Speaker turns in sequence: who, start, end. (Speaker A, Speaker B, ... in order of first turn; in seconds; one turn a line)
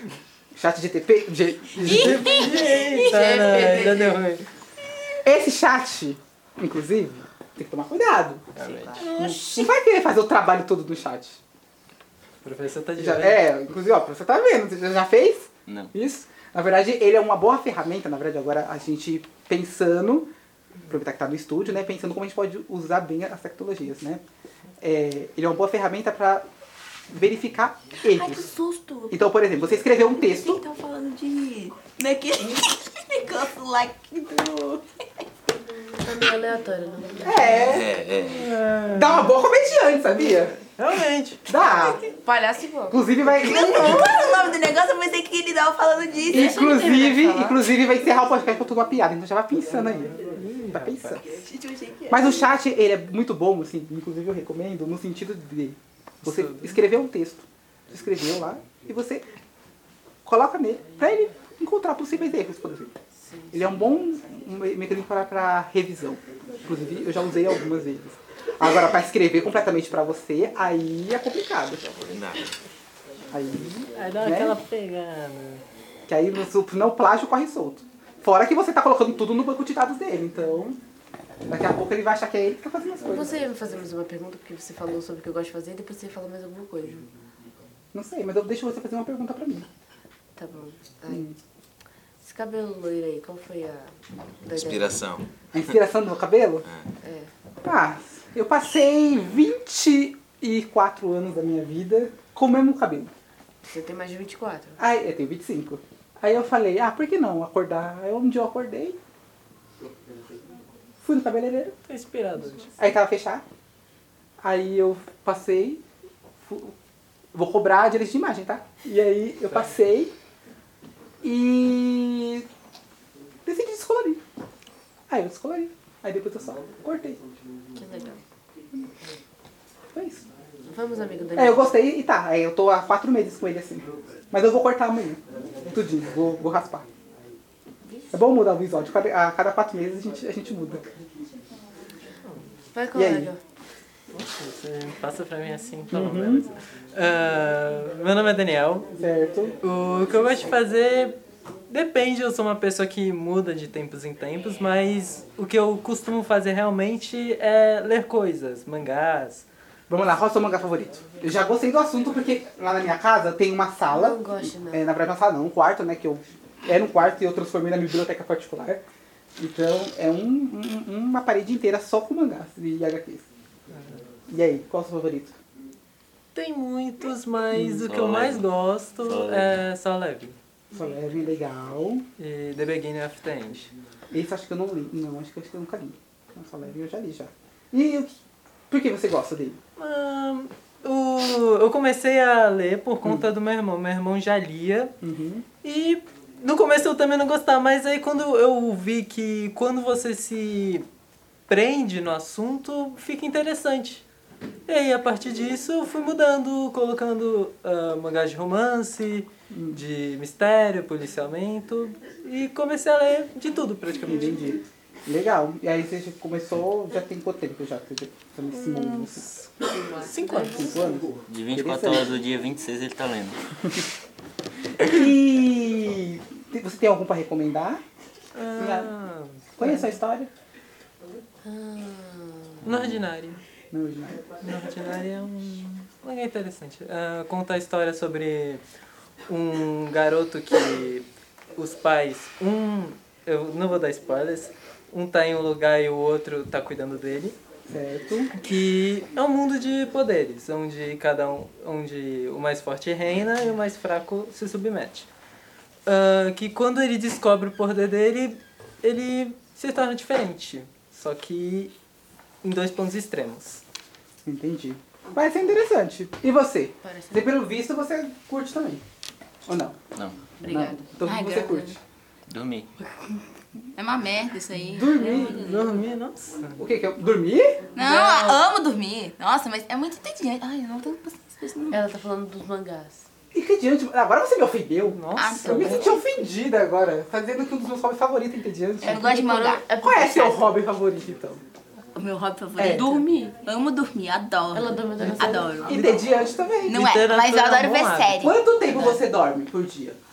Speaker A: 0.5-2.4
Speaker B: 1.8-4.5
Speaker C: 2.4-3.0
Speaker D: 3.0-4.2
Speaker A: 5.2-8.5
Speaker B: 8.6-9.0
Speaker A: 9.0-11.4
Speaker B: 12.4-13.4
Speaker A: 13.0-20.3
Speaker E: 15.7-15.9
Speaker A: 20.9-24.2
Speaker A: 24.8-26.5
Speaker A: 27.1-28.5
Speaker C: 28.0-29.2
Speaker A: 29.1-30.6
Speaker C: 30.1-34.9
Speaker D: 36.0-37.8
Speaker A: 37.2-37.9
Speaker F: 37.6-38.5
Speaker B: 38.2-39.3
Speaker A: 38.9-40.6
Speaker B: 40.6-41.5
Speaker A: 41.5-42.0
Speaker D: 41.6-43.1
Speaker A: 42.9-44.4
Speaker C: 43.2-46.9
Speaker A: 46.3-51.2
Speaker D: 46.4-47.6
Speaker B: 50.2-51.2
Speaker C: 51.2-52.4
Speaker A: 52.1-59.3
Speaker B: 56.2-56.8
Speaker A: 60.2-62.9
Speaker D: 63.3-63.5
Speaker A: 63.5-71.8
Speaker F: 71.9-72.5
Speaker A: 73.3-74.6
Speaker B: 74.0-75.6
Speaker A: 76.1-80.8
Speaker A: 81.5-83.3
Speaker D: 83.1-87.1
Speaker A: 87.9-89.7
Speaker D: 90.4-91.3
Speaker A: 91.1-91.3
Speaker D: 92.2-95.0
Speaker F: 94.6-95.3
Speaker A: 95.5-96.7
Speaker D: 97.0-97.3
Speaker A: 97.6-103.1
Speaker D: 103.7-104.8
Speaker A: 104.8-109.0
Speaker A: 111.0-111.8
Speaker B: 111.9-112.7
Speaker A: 112.8-113.4
Speaker A: 114.4-115.8
Speaker A: 116.5-116.7
Speaker A: 117.3-120.1
Speaker A: 121.2-122.5
Speaker A: 123.5-124.2
Speaker A: 125.1-127.2
Speaker D: 127.8-128.2
Speaker A: 129.9-130.2
Speaker D: 130.6-131.8
Speaker A: 131.3-136.9
Speaker A: 138.1-140.8
Speaker D: 142.7-143.4
Speaker A: 142.9-143.3
Speaker B: 144.1-148.9
Speaker A: 145.9-146.5
Speaker A: 148.9-149.6
Speaker B: 149.6-151.2
Speaker B: 151.7-159.5
Speaker A: 159.9-168.8
Speaker D: 163.9-164.9
Speaker A: 169.4-173.2
Speaker A: 174.3-175.4
Speaker B: 176.3-180.4
Speaker A: 177.5-177.8
Speaker F: 177.9-178.4
Speaker E: 179.3-179.6
Speaker A: 180.7-182.1
Speaker B: 182.2-183.7
Speaker A: 184.1-188.2
Speaker A: 188.7-189.6
Speaker B: 189.8-194.9
Speaker A: 193.0-193.3
Speaker A: 195.0-195.5
Speaker B: 195.6-200.8
Speaker B: 201.5-204.0
Speaker B: 204.7-214.6
Speaker A: 209.5-209.8
Speaker A: 214.0-219.8
Speaker B: 218.5-220.9
Speaker A: 220.5-222.1
Speaker E: 221.3-223.4
Speaker A: 224.8-227.8
Speaker B: 228.3-229.9
Speaker A: 228.6-228.9
Speaker A: 229.6-230.3
Speaker D: 231.4-232.7
Speaker B: 232.7-233.4
Speaker A: 233.7-234.3
Speaker B: 234.4-238.6
Speaker B: 239.3-247.4
Speaker A: 247.7-248.3
Speaker B: 248.3-255.1
Speaker B: 255.9-261.7
Speaker B: 262.4-263.6
Speaker A: 264.2-268.8
Speaker D: 266.8-267.4
Speaker A: 269.5-269.8
Speaker D: 270.4-270.9
Speaker A: 270.4-271.8
Speaker C: 271.0-271.8
Speaker E: 272.3-272.7
Speaker C: 273.8-275.4
Speaker A: 274.7-275.5
Speaker B: 275.1-276.6
Speaker A: 276.6-277.6
Speaker C: 277.8-281.8
Speaker D: 277.8-278.5
Speaker D: 281.7-283.1
Speaker A: 283.3-289.1
Speaker B: 284.9-285.6
Speaker C: 285.1-286.0
Speaker D: 285.3-285.9
Speaker C: 288.8-289.6
Speaker D: 288.8-290.5
Speaker A: 289.8-291.4
Speaker C: 291.9-295.8
Speaker A: 292.6-293.0
Speaker D: 294.5-295.4
Speaker B: 295.0-295.4
Speaker A: 295.6-296.8
Speaker B: 296.7-298.3
Speaker C: 296.7-298.4
Speaker A: 298.2-300.0